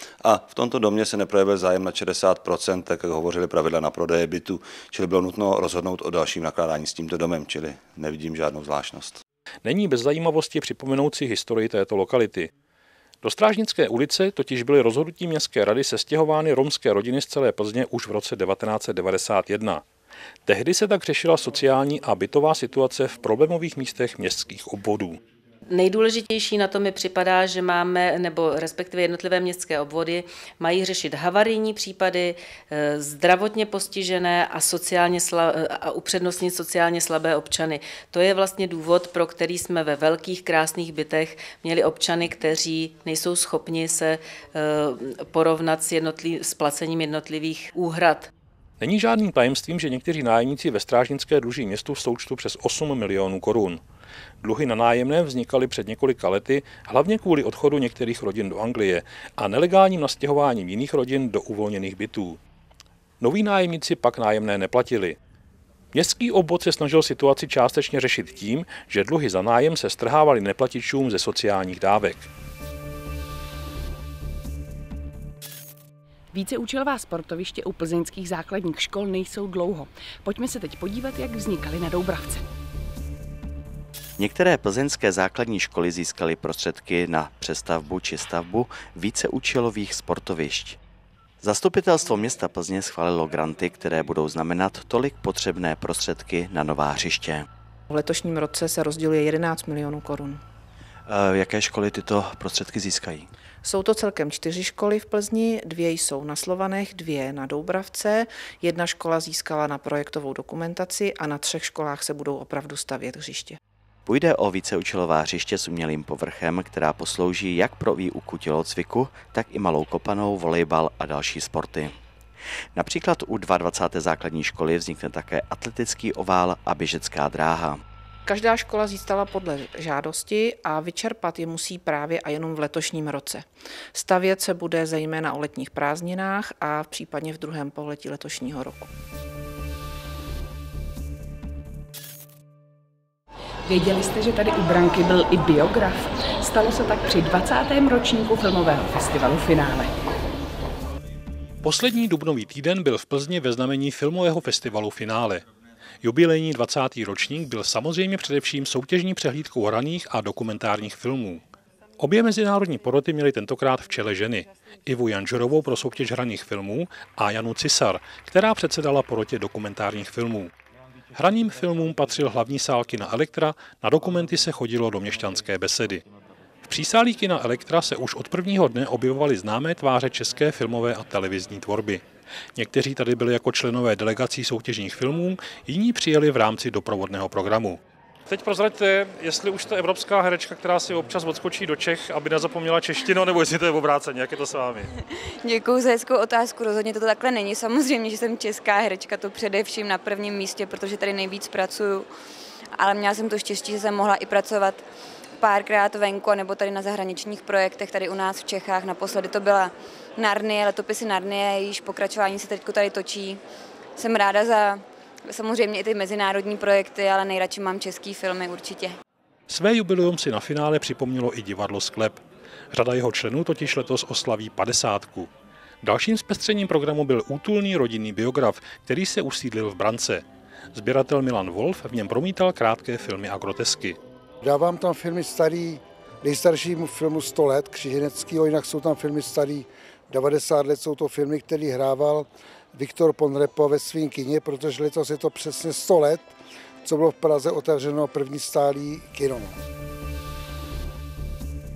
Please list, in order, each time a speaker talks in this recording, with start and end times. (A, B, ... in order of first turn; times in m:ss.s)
0:00.2-0:09.2 A
0:09.6-0:12.5 B
0:13.2-0:19.8 B
0:20.4-0:25.2 B
0:25.7-0:48.3 C
0:48.8-0:53.8 B
0:54.4-1:02.4 B
1:03.2-1:05.2 B
1:05.9-1:12.3 B
1:16.3-1:22.4 D
1:24.2-1:30.8 E
1:31.4-1:37.4 E
1:37.9-1:40.4 F
1:41.1-1:43.3 E
1:43.6-1:53.6 F
1:54.1-2:01.9 E
2:02.8-2:07.8 E
2:08.3-2:18.9 F
2:23.6-2:29.9 D
2:31.6-2:35.4 B
2:36.0-2:41.4 B
2:42.0-2:50.5 B
2:51.1-2:56.0 B
2:56.6-3:02.0 B
3:02.6-3:14.9 B
3:15.1-3:22.1 G
3:22.8-3:24.8 G
3:25.4-3:33.4 G
3:34.0-3:38.9 G
3:39.5-3:42.2 B
3:42.7-3:45.3 B
3:45.8-3:54.0 B
3:54.4-4:06.3 H
4:06.8-4:09.6 H